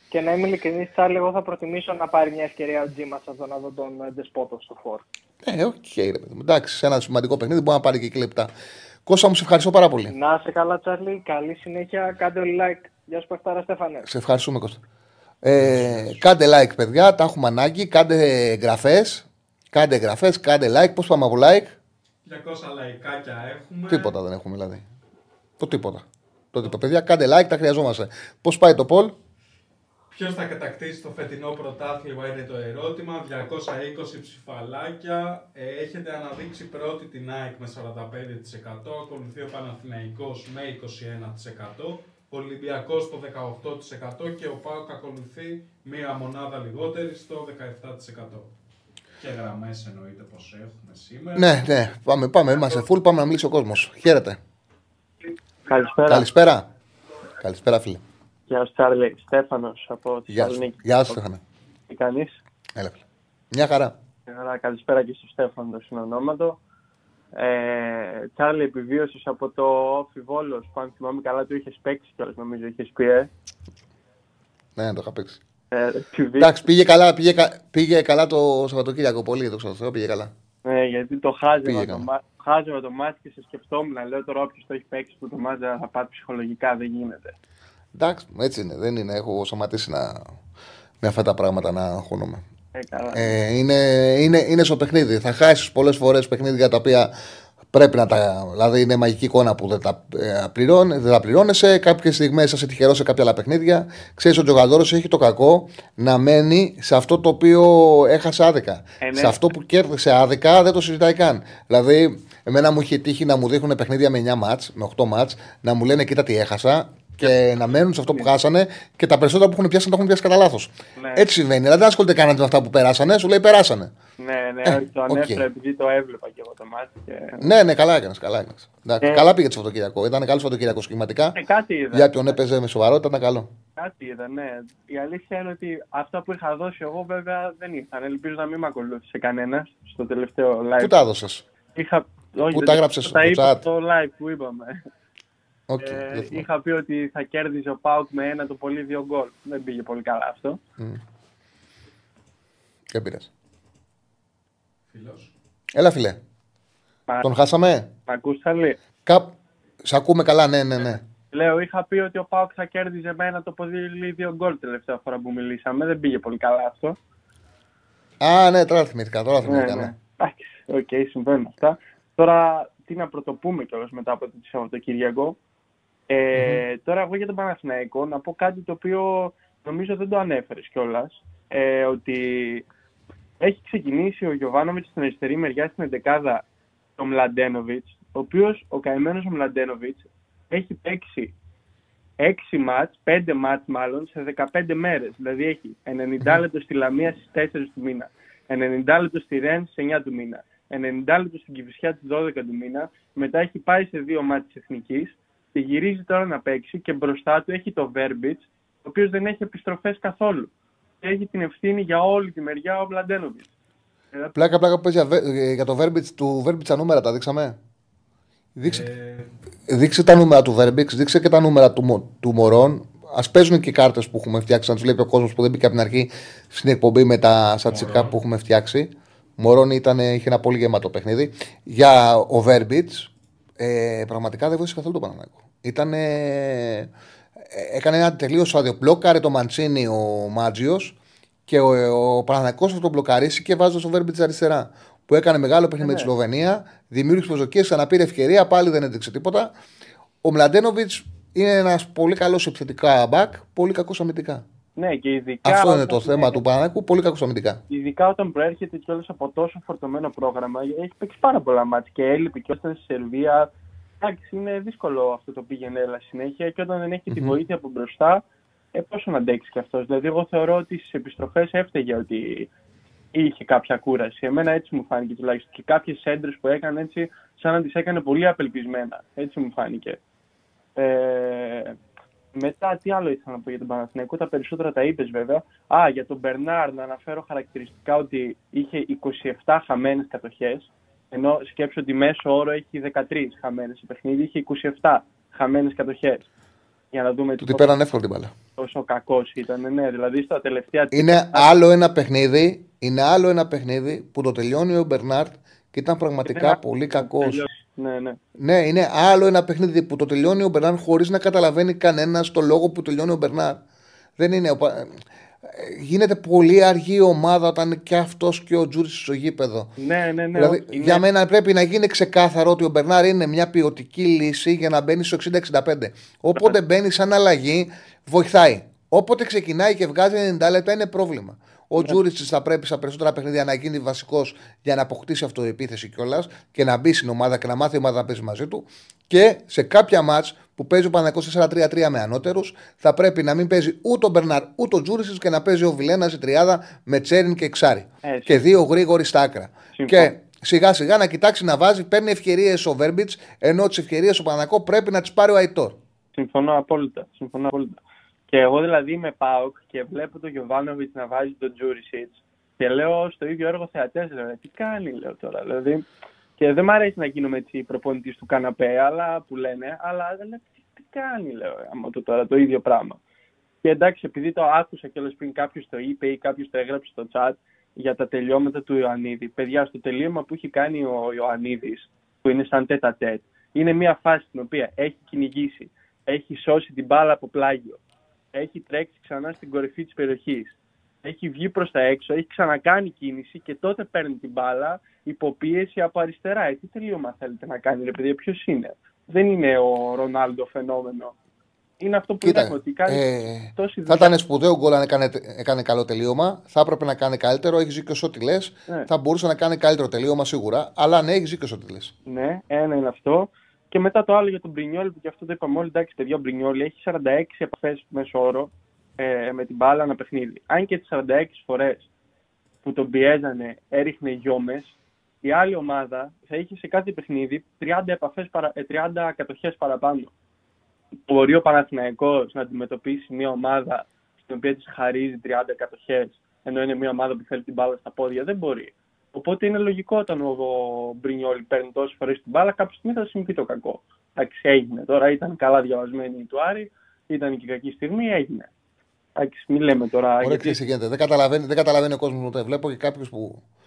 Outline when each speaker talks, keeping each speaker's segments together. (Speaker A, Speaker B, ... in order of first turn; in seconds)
Speaker A: 0.1-5.0, 10.1-14.1
Speaker B: 5.4-8.5, 9.1-10.1, 14.1-14.8, 15.4-21.8, 23.9-24.8, 25.6-29.1, 51.4-54.4, 56.1-56.7, 57.4-58.0, 60.3-61.4, 62.8-63.0, 63.5-63.9, 74.8-75.4, 76.4-80.3, 81.6-82.1, 87.9-90.3, 91.0-92.4, 93.1-97.1, 97.7-123.9, 124.6-125.4, 127.4-131.4, 131.9-133.5, 140.8-141.4, 142.4-143.6, 145.7-146.4, 152.9-153.3, 155.7-156.2, 157.2-157.9, 159.1-159.3, 159.8-161.0, 168.2-169.9, 176.3-176.6, 214.3-217.6, 218.6-218.9, 219.7-236.9, 237.5-240.9, 241.5-249.5, 250.2-254.4, 255.4-257.6, 267.1-267.4, 297.4-298.3, 300.9-307.4, 308.4-313.6, 314.2-319.7, 320.3-355.8, 402.2-411.9, 450.2-453.4
Speaker C: 15.6-16.1, 22.2-24.1, 30.1-48.5, 49.2-51.5, 154.9-155.3, 218.7-219.3, 227.7-228.2
Speaker D: 55.6-56.3, 58.5-61.2, 61.9-62.4, 64.3-66.6, 67.3-73.3, 75.7-76.6, 80.6-87.3, 92.7-93.3, 109.0-109.4, 121.0-121.3, 124.2-127.5, 129.0-129.3, 131.3-132.2, 133.8-140.9, 141.7-144.8, 145.8-150.6, 158.1-158.8, 161.3-167.0, 169.4-175.4, 176.1-182.6, 183.4-186.4, 187.0-191.3, 192.2-210.5, 211.0-213.5, 245.8-246.1, 254.8-256.4, 257.7-268.2, 268.7-272.5, 273.1-280.0, 280.8-281.8, 282.3-296.2, 296.9-297.6, 298.6-301.5, 306.2-308.2, 319.8-321.0, 348.0-348.4, 349.7-350.1, 356.1-365.9, 366.4-373.0, 373.6-387.8, 388.3-401.1, 401.8-404.1, 412.1-421.9, 422.6-430.1, 431.1-448.5, 449.1-450.6